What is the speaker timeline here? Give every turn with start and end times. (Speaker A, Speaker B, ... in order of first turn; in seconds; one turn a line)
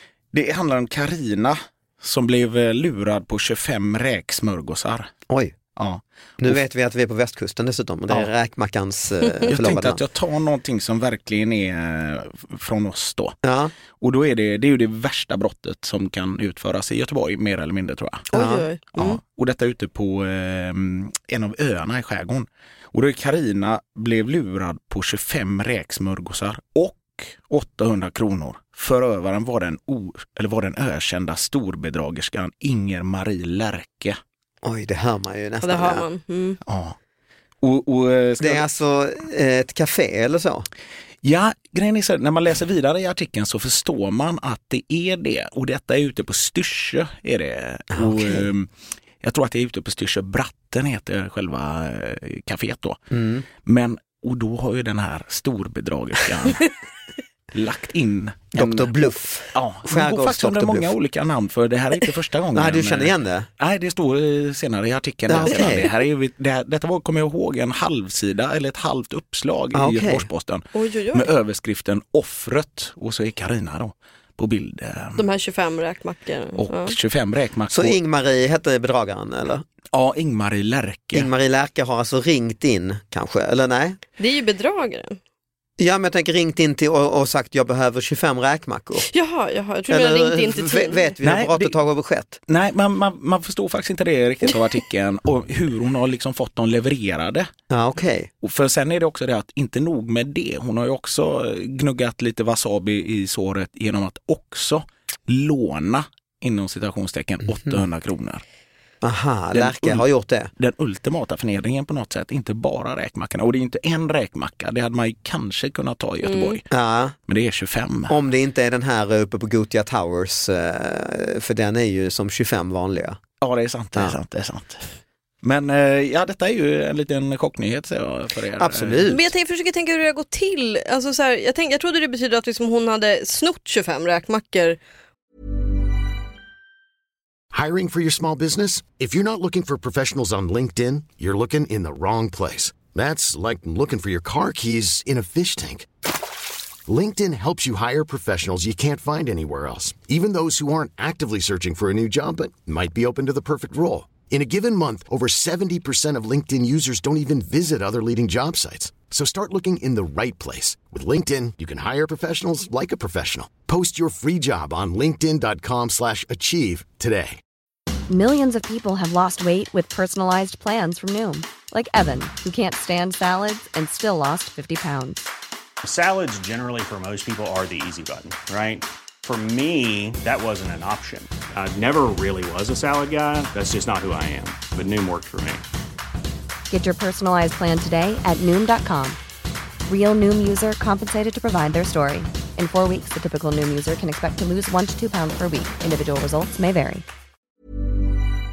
Speaker A: 0.3-5.1
Speaker B: 5.3-5.5
Speaker A: 5.8-6.6
Speaker B: 6.4-10.0
Speaker A: 9.5-13.4
Speaker B: 13.4-13.7
Speaker A: 14.0-18.3
Speaker C: 18.3-18.8
Speaker B: 18.3-19.2
Speaker A: 18.9-34.2
Speaker B: 34.6-36.0
Speaker C: 35.6-36.6
Speaker A: 36.6-37.0
Speaker A: 37.6-38.7
Speaker B: 38.4-40.7
Speaker A: 41.2-48.7
Speaker B: 47.9-48.5
Speaker A: 49.2-53.0
Speaker B: 53.1-53.5
Speaker A: 53.6-56.7
Speaker A: 57.5-75.2
Speaker B: 58.5-60.9
Speaker B: 62.5-63.5
Speaker B: 65.3-65.9
Speaker B: 69.7-70.3
Speaker C: 70.8-71.3
Speaker C: 75.2-77.0
Speaker A: 76.6-78.0
Speaker B: 77.7-79.7
Speaker A: 79.9-81.3
Speaker B: 81.1-84.0
Speaker C: 84.2-85.2
Speaker B: 85.8-89.1
Speaker C: 89.1-91.2
Speaker B: 89.9-92.4
Speaker A: 91.2-91.7
Speaker A: 92.5-97.5
Speaker B: 97.7-98.3
Speaker A: 98.4-108.4
Speaker B: 109.0-110.5
Speaker A: 109.5-110.0
Speaker A: 110.6-116.6
Speaker C: 116.3-116.6
Speaker B: 116.7-117.2
Speaker A: 117.3-118.2
Speaker B: 118.1-123.2
Speaker A: 123.4-124.9
Speaker A: 125.4-129.1
Speaker B: 128.6-129.3
Speaker C: 129.1-134.8
Speaker D: 137.5-145.9
Speaker D: 146.9-167.4
Speaker E: 168.1-175.2
Speaker F: 175.8-185.6
Speaker E: 186.7-189.2
Speaker E: 189.9-197.1